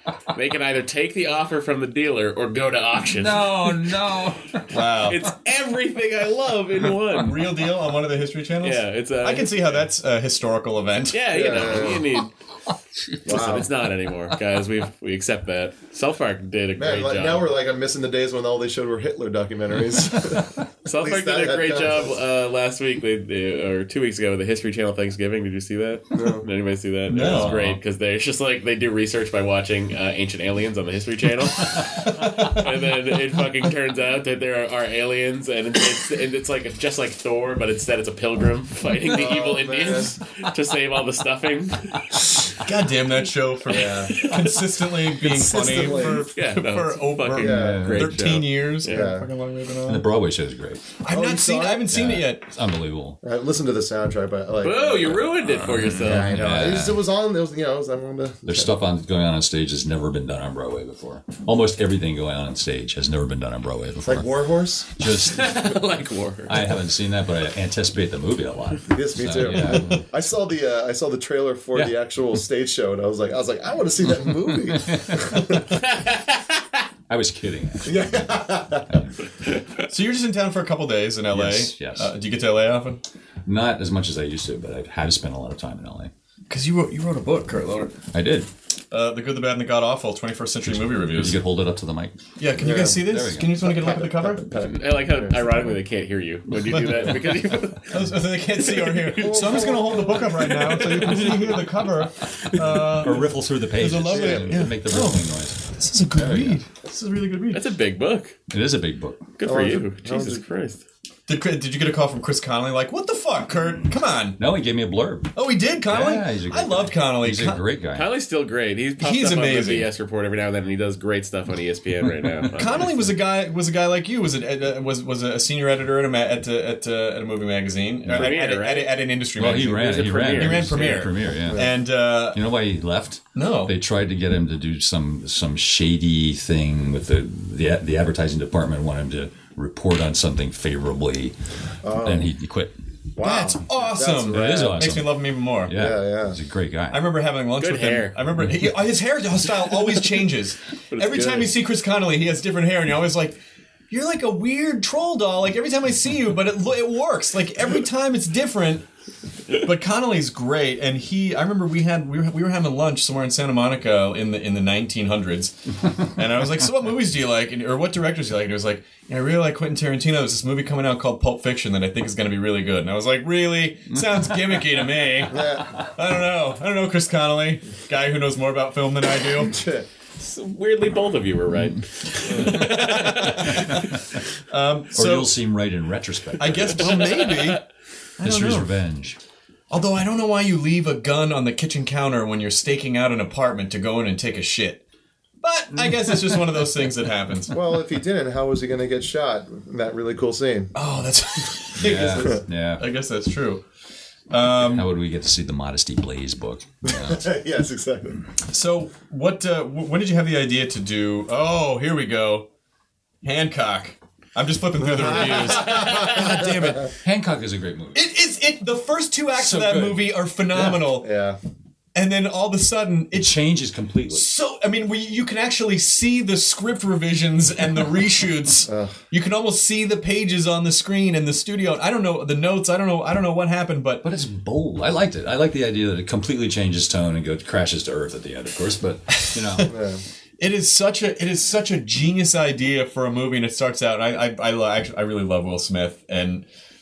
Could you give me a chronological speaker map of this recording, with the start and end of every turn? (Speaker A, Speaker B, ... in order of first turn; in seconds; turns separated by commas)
Speaker A: 0.3-3.8, Speaker B: 3.1-4.7, Speaker C: 4.7-5.2, Speaker A: 5.1-7.4, Speaker C: 7.2-11.8, Speaker A: 8.6-9.6, Speaker A: 11.1-12.3, Speaker D: 11.3-12.1, Speaker D: 13.2-13.7, Speaker A: 13.2-17.5, Speaker D: 16.8-22.2, Speaker A: 20.8-42.0, Speaker D: 26.1-26.4, Speaker C: 27.1-27.7, Speaker B: 27.1-27.8, Speaker C: 32.2-32.6, Speaker D: 39.1-40.1, Speaker C: 42.6-50.1, Speaker D: 43.7-44.2, Speaker D: 45.2-46.3, Speaker A: 46.0-49.1, Speaker D: 47.4-48.0, Speaker B: 47.5-48.2, Speaker D: 48.9-49.3, Speaker B: 49.8-50.8, Speaker C: 51.0-52.5, Speaker D: 51.1-51.9, Speaker B: 51.9-53.2, Speaker D: 53.2-55.3, Speaker A: 54.6-56.4, Speaker B: 55.4-57.0, Speaker D: 56.0-58.7, Speaker B: 58.5-64.3, Speaker D: 64.0-64.9, Speaker B: 64.9-65.7, Speaker A: 65.2-66.7, Speaker B: 66.5-70.0, Speaker D: 68.9-75.6, Speaker B: 74.7-75.6, Speaker B: 77.1-79.2, Speaker D: 77.8-78.9, Speaker C: 79.9-83.0, Speaker B: 81.3-82.1, Speaker B: 83.5-86.1, Speaker C: 86.5-88.0, Speaker B: 88.1-88.5, Speaker C: 88.9-91.4, Speaker B: 90.7-93.6, Speaker C: 92.4-94.5, Speaker D: 92.6-93.0, Speaker D: 93.6-95.7, Speaker A: 94.6-99.7, Speaker C: 96.7-97.0, Speaker C: 97.9-107.6, Speaker D: 99.2-100.4, Speaker A: 100.4-101.6, Speaker B: 102.6-106.6, Speaker D: 104.1-104.7, Speaker A: 107.5-108.3, Speaker B: 108.5-109.3, Speaker A: 109.4-110.8, Speaker D: 109.4-110.4, Speaker C: 111.3-114.4, Speaker B: 114.4-115.3, Speaker C: 115.3-117.6, Speaker B: 115.9-118.1, Speaker A: 117.9-123.1, Speaker C: 119.0-119.9, Speaker B: 122.4-122.7, Speaker C: 122.5-132.4, Speaker B: 128.1-128.3, Speaker A: 128.1-131.0, Speaker B: 129.3-131.8, Speaker D: 131.4-131.7, Speaker B: 132.3-141.3, Speaker C: 133.3-133.8, Speaker D: 141.8-142.3, Speaker B: 142.0-142.7, Speaker D: 143.2-144.8, Speaker C: 143.2-145.7, Speaker B: 144.3-147.1, Speaker D: 145.7-146.4, Speaker C: 146.9-158.8, Speaker A: 147.6-148.2, Speaker A: 150.9-151.5, Speaker C: 159.6-165.6, Speaker C: 166.1-179.5, Speaker D: 175.3-175.7, Speaker D: 179.4-179.8, Speaker A: 180.2-183.7, Speaker C: 182.4-183.8, Speaker B: 183.5-183.8, Speaker C: 184.5-185.4, Speaker B: 184.9-187.2, Speaker C: 186.4-187.6, Speaker A: 186.8-187.6, Speaker C: 188.2-188.7, Speaker B: 188.2-189.2, Speaker C: 189.7-194.8, Speaker C: 195.4-197.5, Speaker D: 197.5-200.7, Speaker C: 200.7-203.6, Speaker B: 201.8-202.8, Speaker C: 204.3-204.9, Speaker B: 204.6-207.3, Speaker D: 206.8-208.2, Speaker C: 208.5-212.5, Speaker C: 213.2-216.9, Speaker D: 214.8-216.6, Speaker B: 217.0-218.0, Speaker C: 217.9-221.1, Speaker B: 219.3-220.2, Speaker D: 220.6-221.4, Speaker C: 221.9-223.4, Speaker B: 223.1-224.2, Speaker C: 224.1-234.0, Speaker D: 228.7-229.0, Speaker B: 234.0-239.7, Speaker C: 239.1-239.7, Speaker D: 239.7-240.0, Speaker C: 240.4-246.4